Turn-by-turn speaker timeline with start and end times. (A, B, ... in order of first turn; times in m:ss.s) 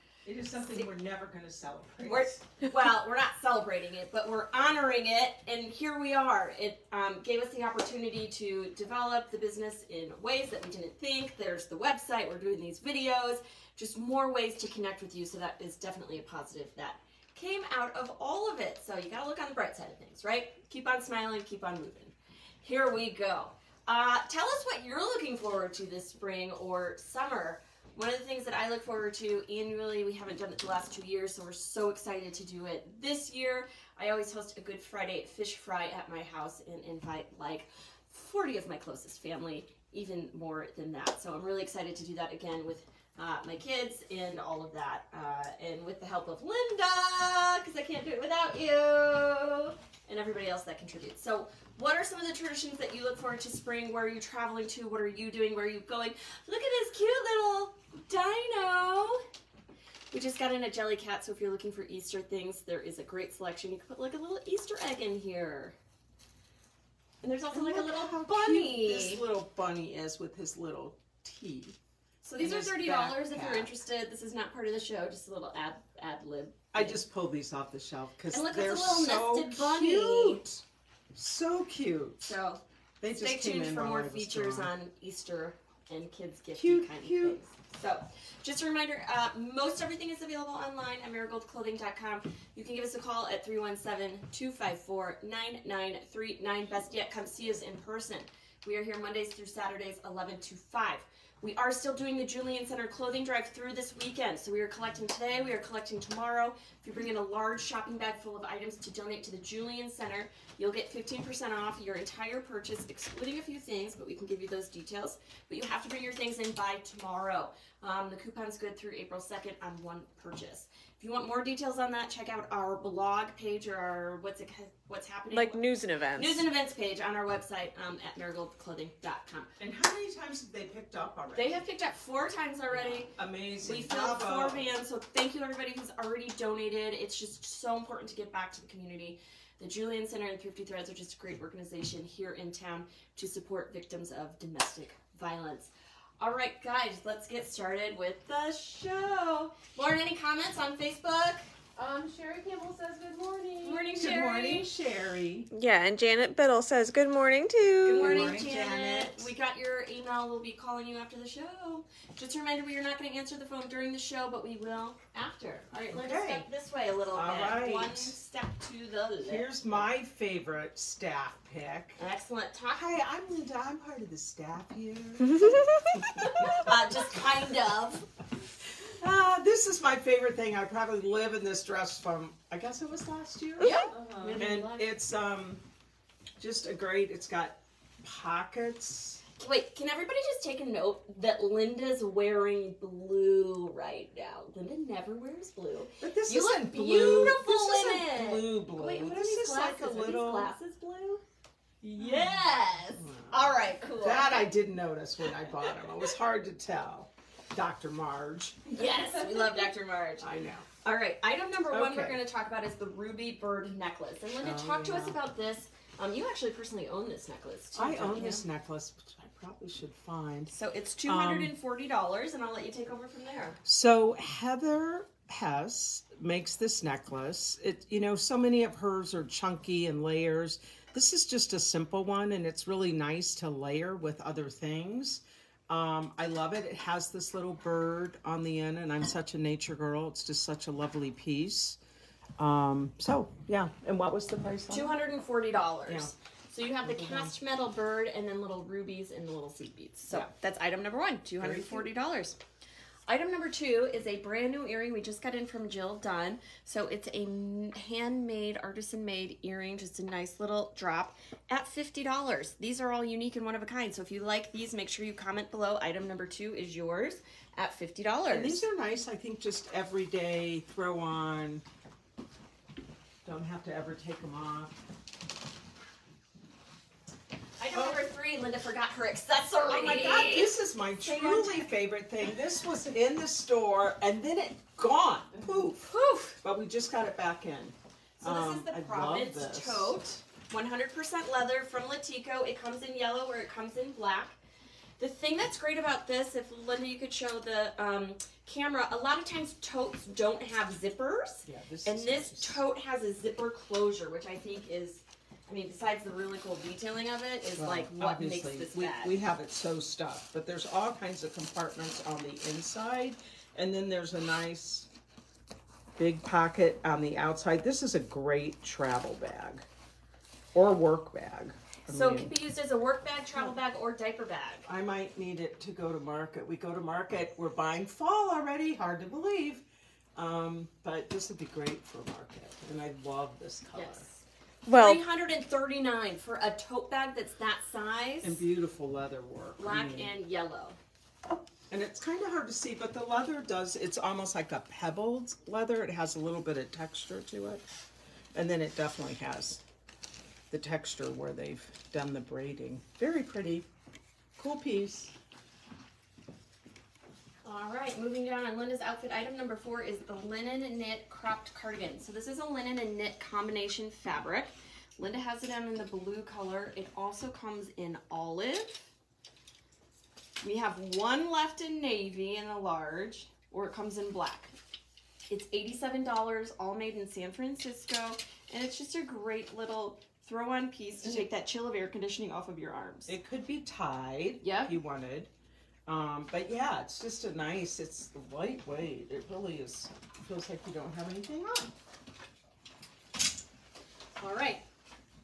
0:00.2-0:02.4 A
0:00.6-0:00.8 B
0:02.0-0:59.2 B
1:00.1-1:05.8 B
1:07.2-1:09.2 B
1:07.5-1:11.8 A
1:12.2-1:17.0 B
1:12.4-1:13.7 A
1:16.7-1:20.6 A
1:18.3-1:20.4 B
1:21.1-1:22.3 A
1:22.2-2:05.6 B
1:23.0-1:24.7 A
1:26.5-1:27.4 A
2:05.3-2:06.4 C
2:06.1-2:09.5 B
2:09.6-2:11.6 A
2:11.3-2:31.4 B
2:12.7-2:14.7 A
2:31.8-2:34.0 D
2:33.6-2:34.7 B
2:34.0-2:35.5 A
2:35.5-2:38.3 C
2:37.8-2:49.9 B
2:37.9-2:39.3 A
2:45.9-2:46.5 A
2:47.1-2:48.2 A
2:49.2-2:52.0 A
2:52.0-2:52.8 B
2:52.7-2:56.7 A
2:55.4-2:56.1 C
2:56.6-2:58.1 B
2:58.8-3:03.8 A
3:03.6-3:04.9 B
3:03.6-3:04.4 C
3:04.4-3:05.6 A
3:06.4-3:09.2 A
3:09.4-3:21.2 B
3:16.0-3:20.5 A
3:21.8-3:24.5 B
3:23.0-3:28.8 A
3:28.7-3:38.4 B
3:30.2-3:30.7 A
3:31.7-3:32.2 A
3:34.4-3:35.2 A
3:37.7-3:40.5 A
3:40.5-3:43.6 B
3:41.1-3:41.5 A
3:43.6-4:01.8 A
4:02.4-4:05.0 A
4:04.7-4:12.4 B
4:05.9-4:06.1 A
4:06.8-4:07.4 A
4:11.4-4:11.9 A
4:13.1-4:28.6 B
4:28.3-4:31.6 A
4:33.2-4:34.8 A
4:37.6-4:41.7 B
4:37.7-4:38.1 A
4:39.6-4:45.9 A
4:45.8-4:46.4 B
4:46.4-4:50.0 A
4:48.2-4:54.4 B
4:55.0-5:09.2 B
5:01.4-5:02.6 A
5:07.6-5:14.9 A
5:16.0-5:19.6 A
5:20.5-5:22.3 A
5:21.9-5:24.7 B
5:24.7-5:29.6 A
5:30.1-5:34.0 A
5:33.7-5:38.4 B
5:34.6-5:35.0 C
5:38.2-5:40.1 A
5:39.6-5:40.8 B
5:41.7-5:47.6 A
5:48.3-5:49.6 A
5:50.5-5:53.6 A
5:54.4-5:55.1 A
5:57.4-6:08.9 B
6:10.4-6:14.5 B
6:15.3-6:23.2 B
6:23.1-6:25.3 A
6:24.4-6:24.8 B
6:25.8-6:31.7 A
6:34.2-6:34.6 B